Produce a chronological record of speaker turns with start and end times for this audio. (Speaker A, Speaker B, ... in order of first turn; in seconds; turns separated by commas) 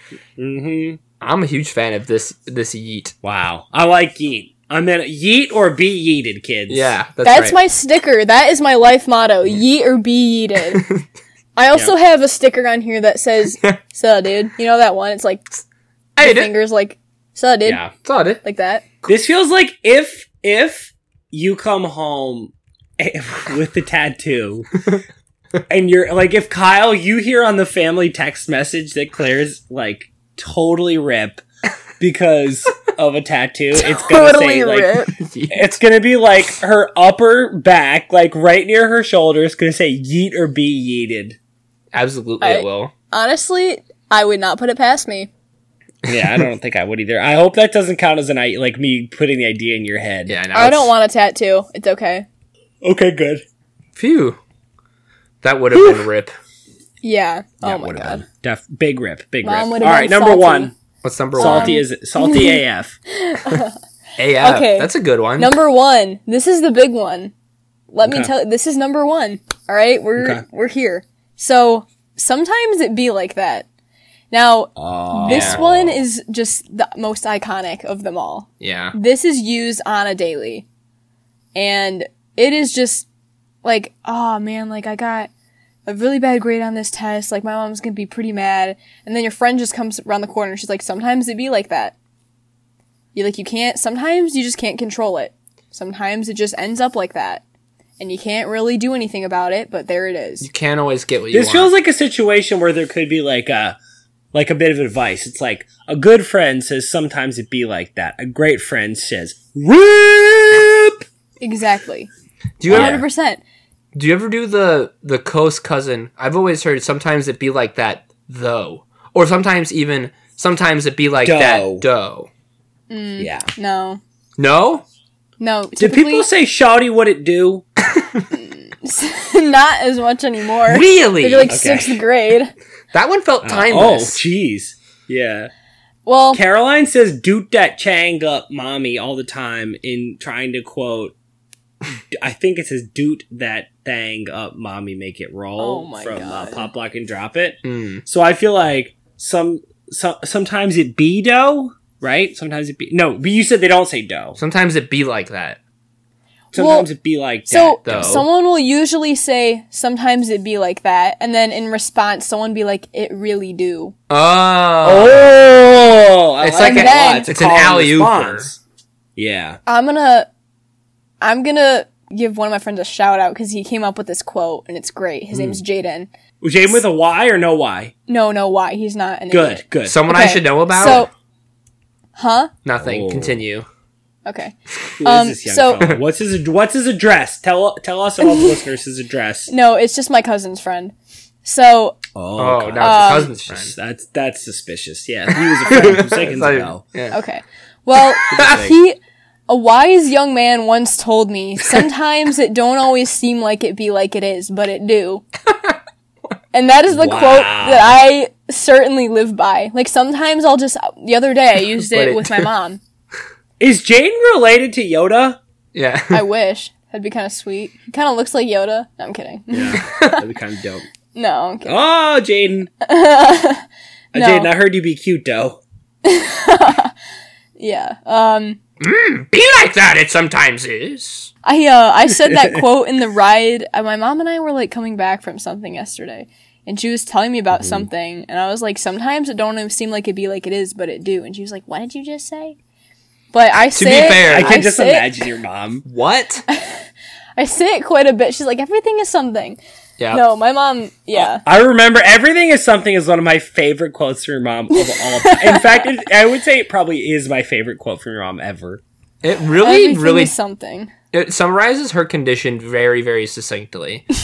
Speaker A: 0.4-1.0, Speaker B: 1.2-3.1, Speaker A: 3.2-7.0, Speaker B: 6.7-7.6, Speaker C: 7.2-10.9, Speaker B: 10.7-11.0, Speaker C: 11.6-15.5, Speaker C: 16.2-17.9, Speaker B: 16.2-16.5, Speaker B: 17.7-18.4, Speaker C: 18.4-18.8, Speaker A: 19.1-24.8, Speaker A: 25.7-31.4, Speaker A: 32.0-41.4, Speaker C: 33.8-35.1, Speaker B: 35.2-35.7, Speaker B: 41.9-42.9, Speaker C: 42.4-45.3, Speaker B: 46.1-46.3, Speaker A: 46.1-50.4, Speaker B: 50.3-50.9, Speaker C: 50.5-52.3, Speaker A: 52.8-53.4, Speaker B: 54.0-54.4, Speaker B: 55.4-56.3, Speaker C: 57.0-58.2, Speaker A: 57.6-60.7, Speaker C: 59.4-60.7, Speaker B: 61.0-61.8, Speaker A: 61.4-63.0, Speaker C: 61.4-63.8, Speaker B: 64.2-65.5, Speaker C: 64.4-67.3, Speaker C: 67.9-73.7, Speaker A: 68.0-68.3, Speaker A: 70.2-70.4, Speaker C: 74.3-80.7, Speaker A: 74.8-76.0, Speaker B: 75.3-75.6, Speaker B: 78.6-79.0, Speaker C: 81.5-83.1, Speaker C: 83.6-85.3, Speaker C: 85.9-92.0, Speaker C: 93.2-97.4, Speaker C: 98.0-100.5, Speaker B: 100.4-101.7, Speaker A: 101.3-103.8, Speaker A: 104.3-111.0, Speaker C: 111.4-112.1, Speaker B: 112.6-113.0, Speaker C: 112.7-113.4, Speaker A: 112.7-113.0, Speaker B: 114.0-122.3, Speaker A: 121.2-121.9, Speaker C: 122.9-124.0, Speaker A: 123.2-123.5, Speaker B: 124.4-124.8, Speaker C: 125.4-126.3, Speaker A: 125.8-127.7, Speaker B: 127.9-128.2, Speaker C: 128.3-132.5, Speaker B: 130.7-131.6, Speaker A: 131.5-132.0, Speaker B: 132.9-134.2, Speaker A: 133.4-135.5, Speaker C: 136.1-136.4, Speaker A: 136.3-141.1, Speaker A: 142.1-154.4, Speaker C: 145.6-146.7, Speaker B: 147.6-148.0, Speaker B: 154.4-155.6, Speaker A: 156.5-158.2, Speaker C: 156.6-156.9, Speaker C: 157.5-163.9, Speaker B: 157.8-158.3, Speaker B: 164.1-165.3, Speaker A: 164.8-168.6, Speaker B: 166.4-168.5, Speaker C: 166.6-167.3, Speaker A: 169.2-169.6, Speaker C: 169.7-170.3, Speaker C: 171.2-176.1, Speaker A: 175.3-175.6, Speaker A: 176.4-177.9, Speaker C: 178.1-181.1, Speaker A: 179.3-180.0, Speaker B: 179.8-181.1, Speaker C: 182.2-182.5, Speaker B: 182.7-183.7, Speaker A: 182.8-183.4, Speaker C: 184.3-185.8, Speaker A: 185.0-189.5, Speaker C: 188.2-188.6, Speaker C: 189.5-192.0, Speaker A: 192.2-196.8, Speaker B: 192.4-193.7, Speaker C: 192.8-193.3, Speaker B: 195.7-197.2, Speaker C: 197.1-199.0, Speaker B: 198.2-198.7, Speaker A: 198.3-198.8, Speaker C: 199.5-205.2, Speaker B: 205.5-205.8, Speaker C: 206.5-212.8, Speaker A: 206.9-208.0, Speaker B: 211.8-212.5, Speaker A: 213.6-215.4, Speaker B: 215.7-216.2, Speaker C: 216.1-220.2, Speaker A: 219.5-220.8, Speaker B: 219.9-220.2, Speaker C: 221.1-221.8, Speaker A: 221.7-222.7, Speaker C: 222.8-224.5, Speaker A: 224.1-225.6, Speaker C: 226.0-226.9, Speaker C: 227.6-228.6, Speaker B: 228.8-231.3, Speaker C: 231.4-242.6, Speaker A: 232.2-232.6, Speaker A: 237.6-237.8, Speaker C: 243.3-245.2, Speaker B: 243.7-244.6, Speaker A: 244.2-245.8, Speaker B: 245.9-246.4, Speaker C: 246.5-249.6, Speaker C: 250.1-251.4, Speaker A: 251.2-258.8, Speaker C: 254.7-255.9, Speaker B: 259.2-260.3, Speaker C: 259.6-260.9, Speaker B: 261.1-264.1